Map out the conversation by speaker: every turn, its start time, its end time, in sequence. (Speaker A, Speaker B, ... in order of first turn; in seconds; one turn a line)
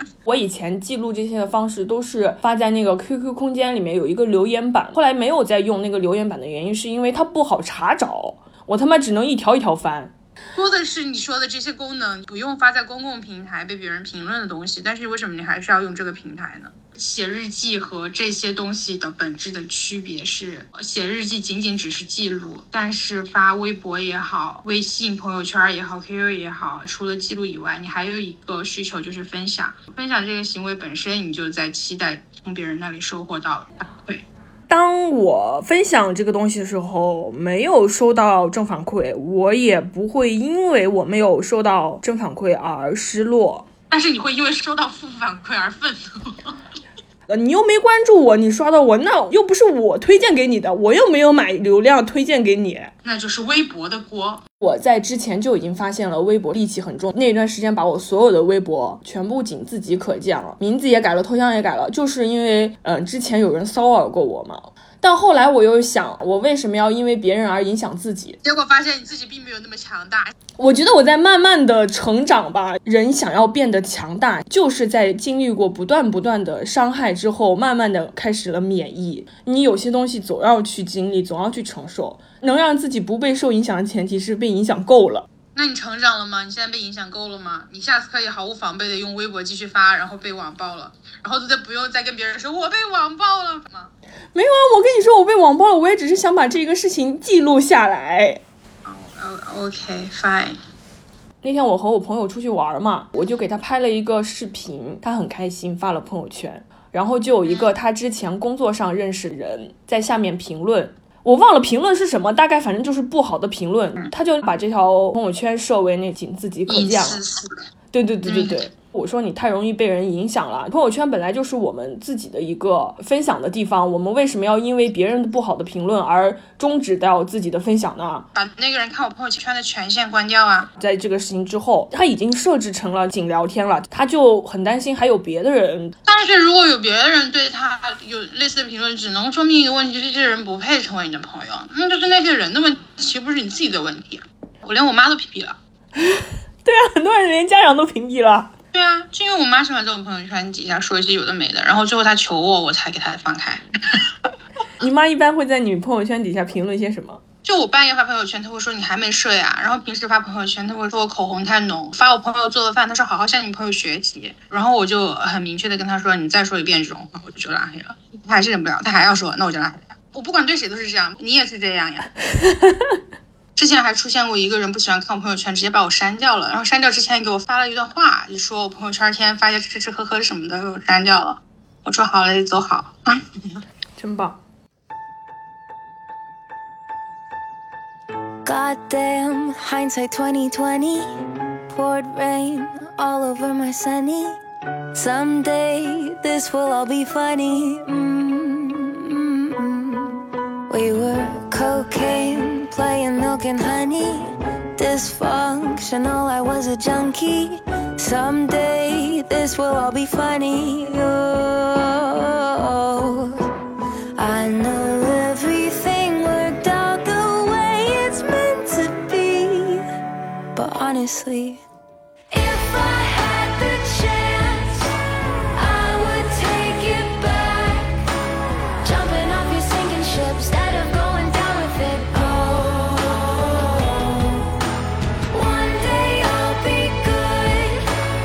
Speaker A: 0.2-10.1
Speaker B: 10.5-34.2
Speaker A: 34.7-43.7
Speaker B: 43.9-46.5
Speaker A: 47.3-52.9
Speaker B: 53.0-54.4
Speaker A: 54.6-68.4
Speaker B: 68.4-70.3
Speaker A: 70.6-85.3
Speaker B: 85.5-93.9
Speaker A: 94.3-98.4
Speaker B: 98.8-100.6
Speaker A: 101.4-117.2
Speaker B: 116.7-117.6
Speaker A: 117.9-128.3
Speaker B: 118.2-118.6
Speaker B: 128.3-130.7
Speaker A: 130.8-136.0
Speaker B: 136.1-145.6
Speaker A: 146.0-148.5
Speaker B: 148.7-154.1
Speaker A: 154.8-157.2
Speaker B: 157.4-172.1
Speaker B: 173.6-183.6
Speaker A: 184.0-184.4
Speaker C: 188.4-191.1
Speaker C: 191.7-194.4
Speaker C: 194.9-213.5
Speaker C: 214.2-219.8
Speaker C: 220.5-221.6
Speaker C: 222.3-224.9
Speaker C: 225.5-227.9
Speaker C: 228.8-234.5
Speaker C: 235.3-237.9